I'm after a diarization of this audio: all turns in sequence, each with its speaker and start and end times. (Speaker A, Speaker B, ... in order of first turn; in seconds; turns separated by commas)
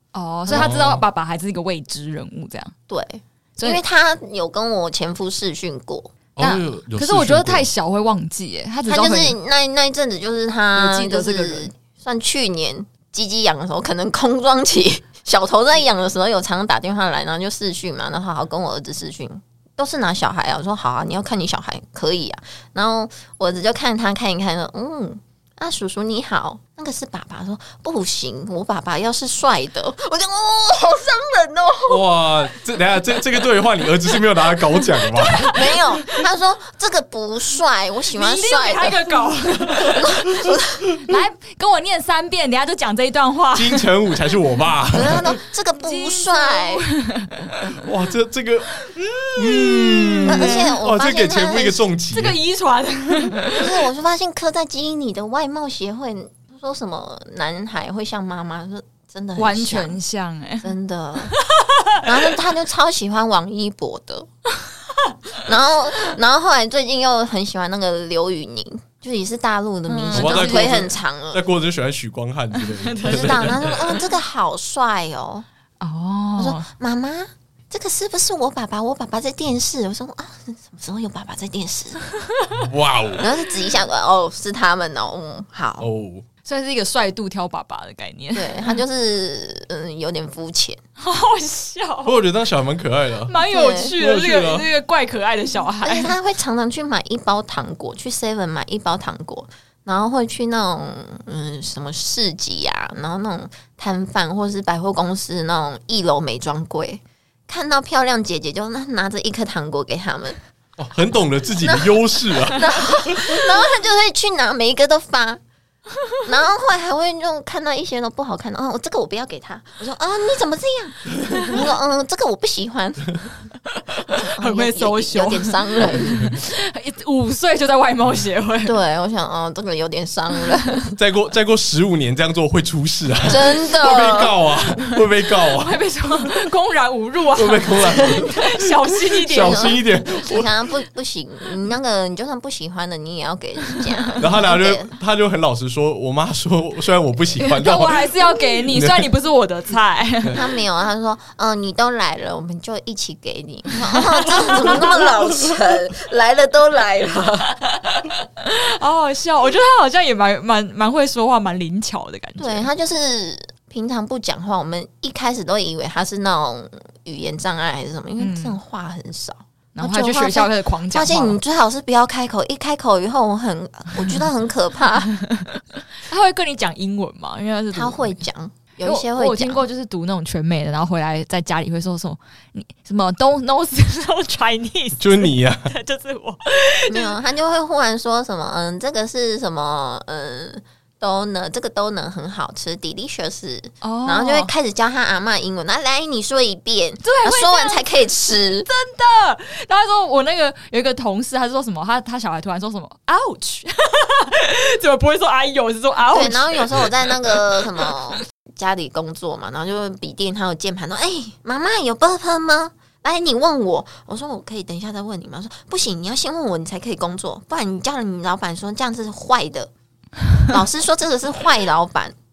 Speaker A: 0.1-2.7, Speaker B: 0.5-0.7, Speaker C: 0.5-1.0, Speaker B: 2.9-6.1, Speaker C: 6.4-7.7, Speaker A: 6.4-9.4, Speaker B: 8.8-32.0, Speaker A: 10.7-11.7, Speaker C: 31.9-35.8, Speaker A: 35.2-35.5, Speaker B: 35.4-39.1, Speaker A: 38.1-40.2, Speaker B: 39.8-40.8, Speaker A: 41.0-43.9, Speaker C: 43.5-45.3, Speaker B: 44.9-46.8, Speaker A: 45.8-47.8, Speaker C: 47.7-52.4, Speaker A: 48.8-50.7, Speaker B: 50.2-51.8, Speaker A: 52.1-53.7, Speaker B: 53.4-60.0, Speaker A: 59.4-60.7, Speaker B: 60.6-61.4, Speaker A: 61.3-62.0, Speaker B: 62.0-64.3, Speaker B: 65.4-71.4, Speaker A: 69.9-70.9, Speaker C: 70.1-73.8, Speaker A: 72.5-73.8, Speaker B: 73.0-75.5, Speaker A: 75.8-76.7, Speaker B: 76.4-82.1, Speaker C: 82.5-83.2, Speaker B: 83.2-85.9, Speaker C: 85.8-86.2, Speaker A: 86.4-88.8, Speaker B: 88.3-90.8, Speaker A: 91.0-92.2, Speaker C: 92.0-93.4, Speaker A: 93.3-96.1, Speaker B: 93.5-93.9, Speaker C: 94.0-94.7, Speaker B: 95.8-110.4, Speaker C: 110.8-113.4, Speaker B: 111.6-115.4, Speaker B: 116.2-123.2, Speaker A: 123.7-128.8, Speaker B: 124.1-126.3, Speaker B: 128.6-130.9, Speaker C: 130.9-135.8, Speaker B: 133.3-134.3, Speaker A: 135.5-139.8, Speaker C: 137.3-140.5, Speaker B: 137.9-138.3, Speaker B: 139.4-144.9, Speaker C: 144.2-149.1, Speaker A: 147.4-150.4, Speaker B: 150.3-157.5, Speaker A: 154.4-154.7, Speaker A: 157.8-162.7, Speaker B: 162.4-175.1, Speaker A: 168.2-168.6, Speaker A: 169.7-171.4, Speaker A: 175.2-178.2, Speaker B: 177.7-179.7, Speaker A: 178.8-187.1, Speaker C: 185.0-185.7, Speaker B: 186.9-198.7, Speaker A: 193.8-194.5, Speaker A: 197.0-197.8, Speaker A: 198.7-207.9, Speaker B: 206.1-219.7, Speaker B: 220.5-222.1